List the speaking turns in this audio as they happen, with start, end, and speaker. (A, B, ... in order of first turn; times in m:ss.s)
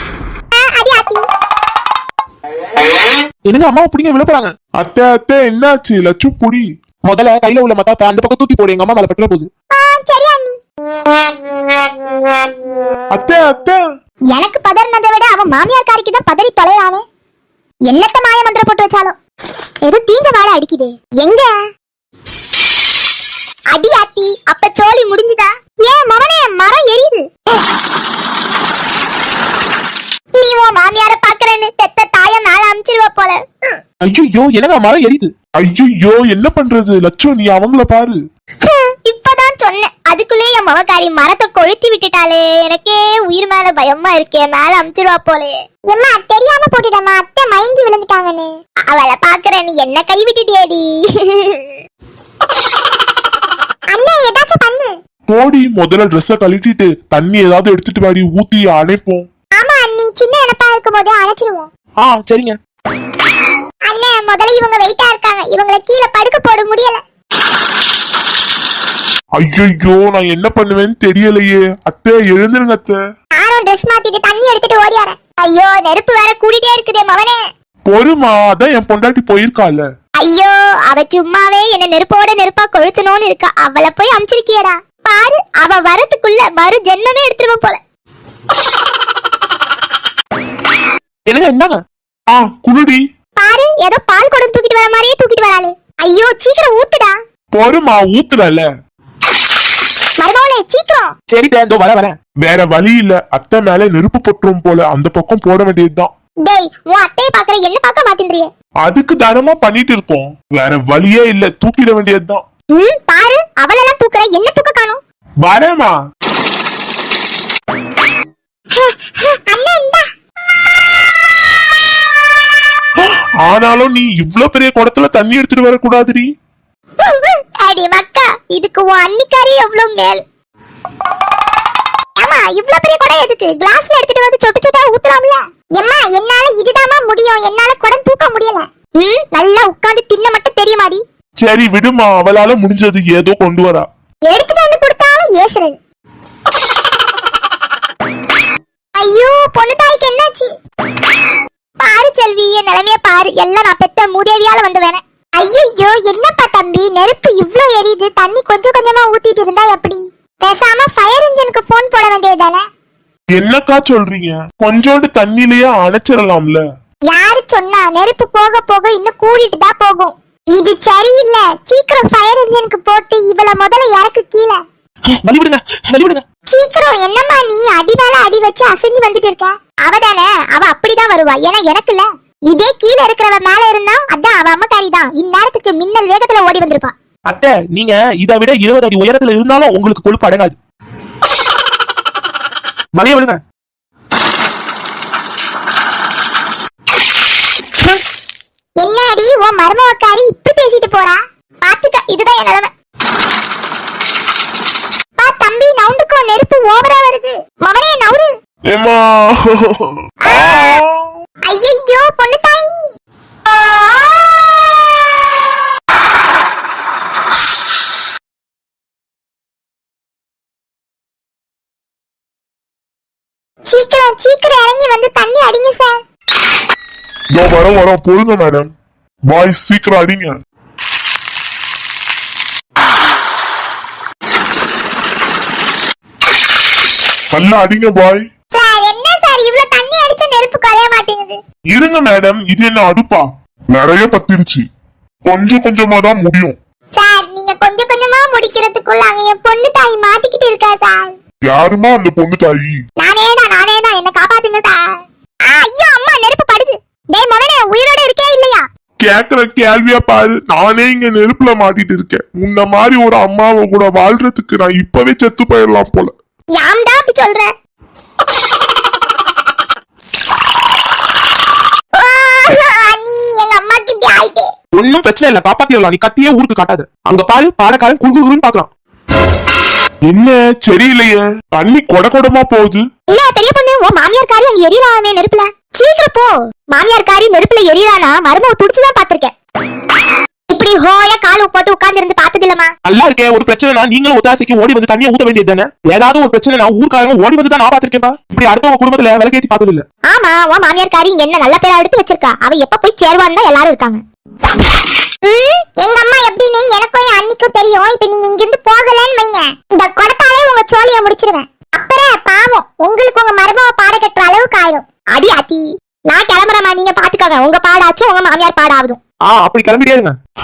0:00.5-0:01.2 A
0:03.4-0:04.5 B
0:04.8-0:06.7 C
0:07.0-0:09.5 B
0:09.7-0:10.6 A
0:13.1-0:13.8 C
0:14.3-0:17.0 A
0:17.9-0:19.2 A
0:19.8-0:21.5 A
0:23.7-0:27.2 A
0:30.4-0:33.8 A
0:34.0-0:35.3 B
0:35.6-0:38.2 C
0:38.6-0:51.8 A
0:53.9-0:54.9 A
0:55.3-0:59.3 C
0:59.6-1:01.7 A
1:02.0-1:02.6 B
1:03.9-1:07.0 A
1:09.4-1:13.0 C
1:13.4-1:17.4 A
1:17.9-1:19.8 C
1:20.2-1:27.8 A
1:31.3-1:31.8 B
1:32.3-1:33.0 C
1:33.4-1:37.1 A
1:37.5-1:38.7 C
1:40.2-1:41.1 A
1:41.3-1:42.2 B
1:42.4-1:46.1 C
1:46.4-1:48.5 A
1:48.8-1:52.4 C
1:52.7-1:55.0 A
1:55.4-1:55.9 C
1:58.7-2:00.1 A
2:03.4-2:06.3 C
2:07.0-2:10.2 A
2:12.2-2:21.0 A
2:21.4-2:23.9 C
2:24.3-2:25.8 A
2:29.0-2:30.5 A
2:31.8-2:42.6 A
2:43.4-2:46.6 C
2:47.1-2:54.6 A
2:55.2-2:56.2 B
2:56.5-3:06.9 A
3:07.3-3:10.6 B
3:13.0-3:13.4 B
3:18.8-3:22.7 A
3:25.2-3:28.3 A
3:28.7-3:31.1 C
3:30.3-3:30.8 A
3:31.5-3:32.8 A
3:43.7-3:46.0 A
3:47.3-3:48.7 C
3:49.3-3:50.3 C
3:57.3-3:58.2 C
3:58.5-4:01.4 A
4:01.7-4:04.6 C
4:05.2-4:06.5 C
4:07.0-4:11.1 A
4:11.5-4:12.8 C
4:13.0-4:18.6 A
4:19.0-4:26.1 C
4:26.6-4:27.5 A
4:31.9-4:34.5 A
4:34.7-4:38.7 B
4:40.0-4:42.8 C
4:43.1-4:49.3 A
4:50.5-4:52.7 A
4:52.8-4:59.8 B
5:00.1-5:04.0 A
5:05.2-5:19.0 A
5:19.3-5:20.2 B